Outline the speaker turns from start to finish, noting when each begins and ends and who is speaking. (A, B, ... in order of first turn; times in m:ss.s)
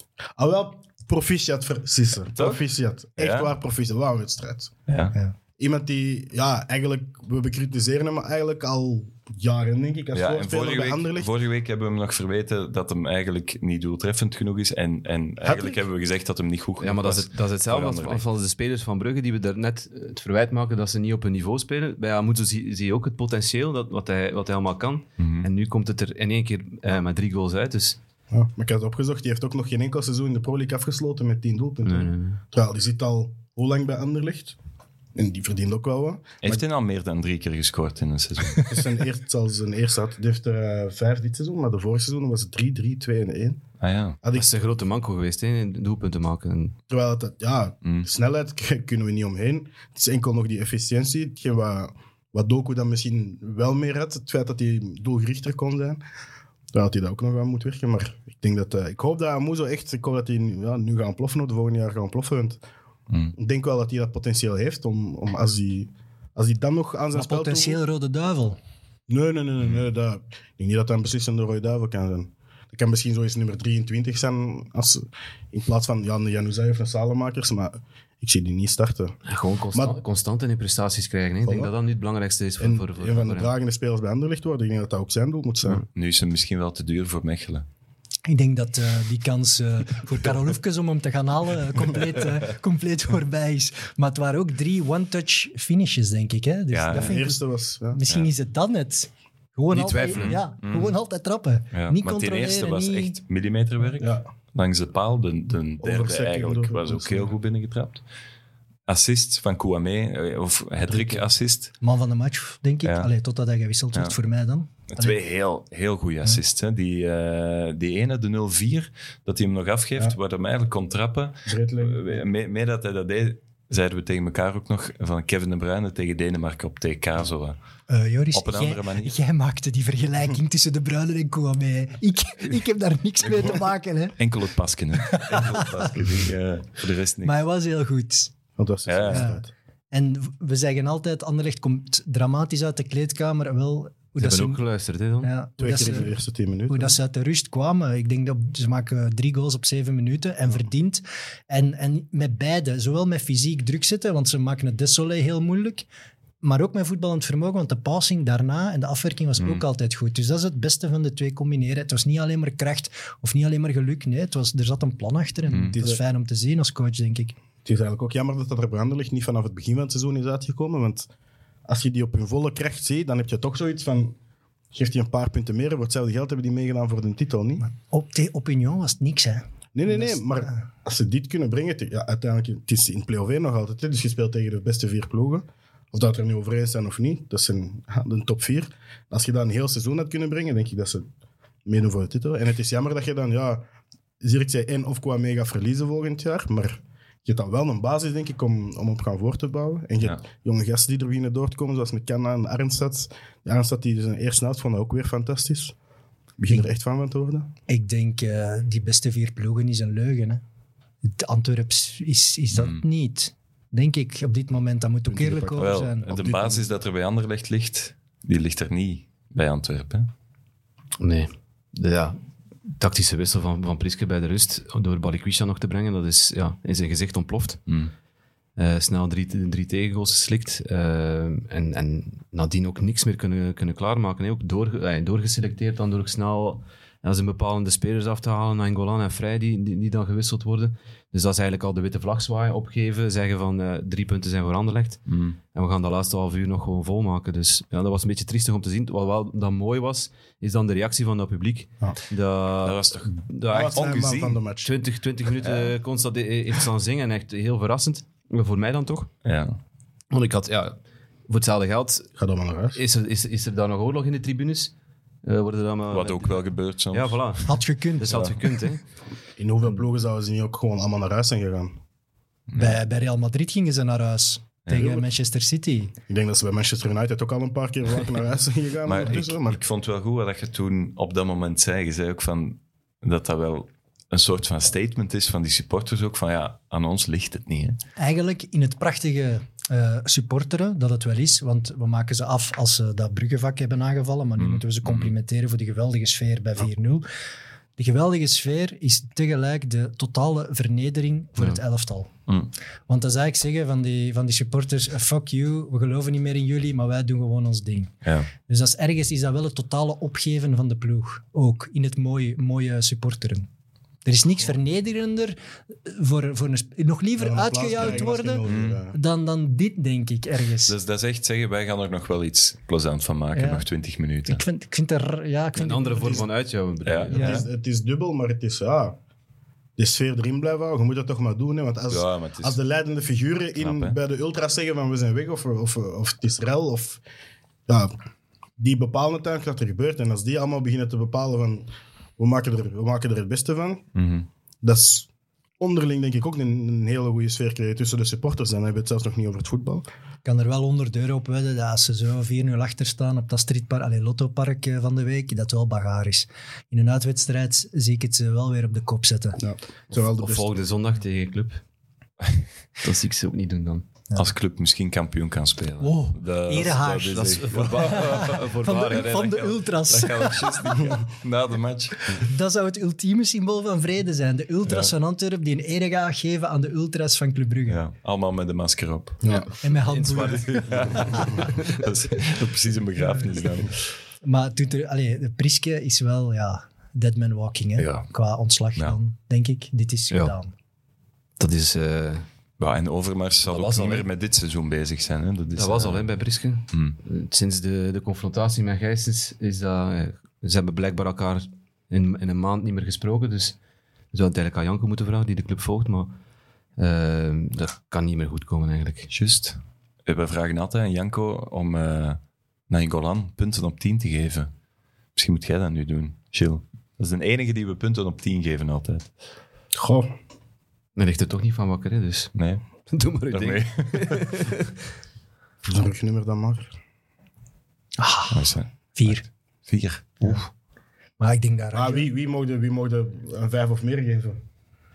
0:00.4-0:04.8 A
0:02.4-0:02.6 B
0:03.2-0:03.5 B
0:04.9-0:05.2 B
0:05.6-0:11.3 A
0:10.1-0:18.2 B
0:15.4-0:15.8 A
0:16.8-0:28.0 C
0:25.2-0:25.5 B
0:28.3-0:34.6 A
0:31.8-0:32.4 C
0:35.2-0:36.6 A
0:36.4-0:38.8 B
0:38.6-0:43.6 A
0:43.8-0:44.2 B
0:44.2-0:44.5 A
0:44.3-0:46.8 C
0:46.9-0:56.0 A
0:56.7-1:02.6 A
1:03.1-1:03.4 B
1:03.4-1:07.8 A
1:07.1-1:08.6 D
1:09.1-1:19.2 A
1:19.3-1:23.5 C
1:21.4-1:21.7 A
1:22.6-1:25.8 A
1:25.9-1:27.7 B
1:28.3-1:43.2 D
1:36.7-1:37.2 B
1:36.9-1:38.0 A
1:39.7-1:40.4 C
1:40.1-1:41.0 B
1:41.7-1:48.0 B
1:44.0-1:44.3 A
1:45.8-1:47.4 A
1:48.9-1:51.7 B
1:50.9-1:51.2 A
1:51.8-1:55.2 D
1:52.8-1:53.1 B
1:54.9-2:07.6 B
2:01.5-2:02.2 A
2:07.9-2:14.2 D
2:08.3-2:09.1 B
2:14.2-2:17.4 B
2:15.0-2:15.9 D
2:17.2-2:18.3 D
2:18.6-2:19.5 A
2:18.9-2:19.3 B
2:19.1-2:24.6 D
2:24.2-2:25.3 C
2:25.2-2:26.1 D
2:25.6-2:27.0 A
2:26.7-2:35.8 D
2:36.4-2:47.4 D
2:39.4-2:39.6 B
2:45.5-2:45.8 B
2:45.7-2:46.0 A
2:47.6-2:51.1 A
2:51.7-2:54.2 A
2:54.7-2:57.6 A
2:57.6-3:00.6 D
2:59.7-3:11.1 A
3:11.6-3:13.6 A
3:14.2-3:25.8 A
3:26.4-3:27.5 A
3:27.7-3:30.4 D
3:31.0-3:36.1 D
3:32.5-3:32.8 B
3:35.1-3:36.7 A
3:35.6-3:40.1 B
3:41.0-3:42.2 C
3:42.8-3:47.6 C
3:48.6-4:13.9 C
4:05.1-4:05.4 B
4:12.6-4:14.4 B
4:13.5-4:14.7 A
4:14.6-4:19.1 C
4:19.2-4:19.6 B
4:20.1-4:20.8 C
4:21.3-4:22.1 C
4:22.2-4:22.8 A
4:22.8-4:24.7 C
4:25.2-4:28.8 C
4:25.9-4:27.2 B
4:27.5-4:28.4 D
4:29.4-4:31.8 A
4:32.5-4:32.8 B
4:32.6-4:35.9 D
4:34.7-4:35.1 A
4:36.1-4:39.6 A
4:38.8-4:47.8 B
4:48.0-4:57.0 D
4:54.4-4:55.1 B
4:57.8-5:02.1 D
5:02.9-5:13.5 D
5:14.0-5:20.8 D
5:17.2-5:19.0 A
5:18.4-5:18.8 B
5:20.7-5:24.4 B
5:23.3-5:23.6 D
5:24.3-5:26.3 D
5:25.6-5:27.4 C
5:26.8-5:27.4 B
5:27.1-5:27.5 D
5:27.1-5:29.0 A
5:29.8-5:37.0 A
5:31.9-5:32.6 B
5:33.6-5:34.0 B
5:37.7-5:37.9 A
5:38.6-5:43.8 A
5:44.0-5:44.3 B
5:44.6-5:49.9 A
5:50.2-5:59.4 D
5:59.4-6:00.5 A
5:59.9-6:01.6 C
6:02.8-6:03.9 C
6:04.2-6:08.4 B
6:05.8-6:10.9 D
6:07.1-6:09.6 C
6:09.9-6:12.3 B
6:12.2-6:17.8 D
6:14.7-6:14.9 B
6:17.7-6:19.3 B
6:19.2-6:19.5 A
6:19.6-6:21.4 D
6:19.9-6:21.8 C
6:20.2-6:23.8 B
6:23.0-6:23.3 D
6:24.2-6:30.5 D
6:27.8-6:28.1 B
6:31.4-6:32.3 C
6:32.6-6:36.1 B
6:33.5-6:34.1 C
6:35.6-6:43.6 C
6:36.7-6:37.0 B
6:44.1-6:46.1 C
6:46.8-6:49.1 C
6:49.1-6:54.5 B
6:55.2-6:59.1 B
6:59.8-7:00.1 A
7:01.0-7:04.8 C
7:02.4-7:02.6 B
7:03.3-7:04.3 B
7:05.6-7:06.7 A
7:08.0-7:09.2 D
7:08.3-7:10.4 B
7:11.2-7:12.1 D
7:11.7-7:14.4 A